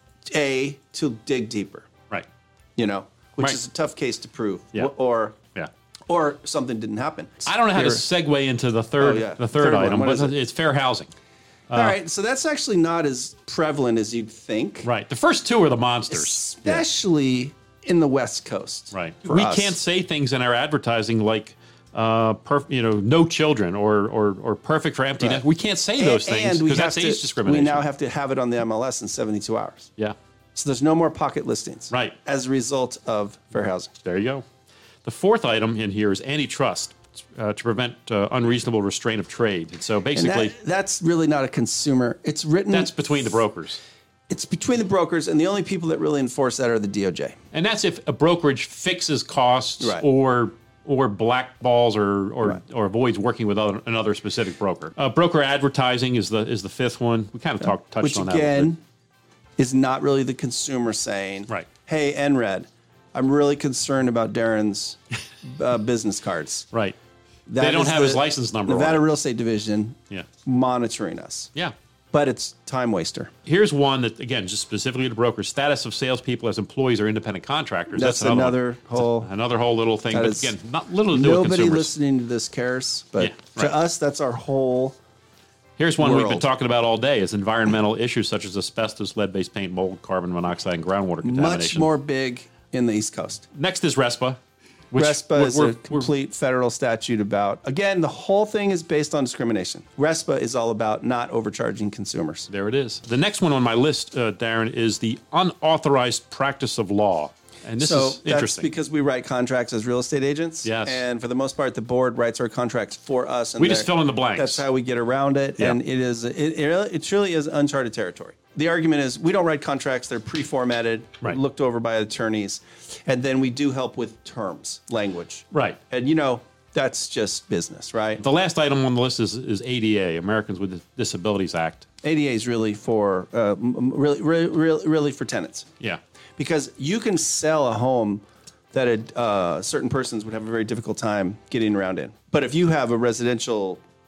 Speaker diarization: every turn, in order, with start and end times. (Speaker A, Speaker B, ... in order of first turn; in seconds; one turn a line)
Speaker A: 0.3-1.9
Speaker A: 2.8-5.4
Speaker A: 6.1-8.0
Speaker B: 7.5-11.1
Speaker A: 9.0-10.3
Speaker B: 11.7-12.0
Speaker A: 11.7-14.9
Speaker B: 14.8-16.8
Speaker A: 16.1-19.8
Speaker B: 18.9-27.9
Speaker A: 26.0-29.9
Speaker A: 30.6-33.9
Speaker B: 31.9-32.2
Speaker B: 34.0-34.4
Speaker B: 35.0-40.5
Speaker A: 40.1-43.4
Speaker B: 42.7-43.8
Speaker A: 44.3-47.4
Speaker B: 47.5-58.7
Speaker A: 49.8-50.0
Speaker A: 58.0-58.8
Speaker A: 59.6-66.7
Speaker A: 67.5-71.5
Speaker B: 67.6-69.0
Speaker A: 72.1-73.3
Speaker B: 73.5-81.9
Speaker A: 77.9-79.3
Speaker A: 80.1-80.5
Speaker A: 81.1-85.0
Speaker B: 83.2-83.7
Speaker B: 85.8-91.9
Speaker A: 86.0-86.5
Speaker A: 91.2-93.5
Speaker B: 93.5-94.4
Speaker B: 94.9-96.1
Speaker A: 94.9-102.5
Speaker B: 102.5-108.7
Speaker A: 107.8-128.2
Speaker B: 110.6-111.0
Speaker B: 113.6-114.6
Speaker B: 125.5-125.8
Speaker B: 128.2-131.9
Speaker A: 132.0-135.7
Speaker A: 136.4-143.8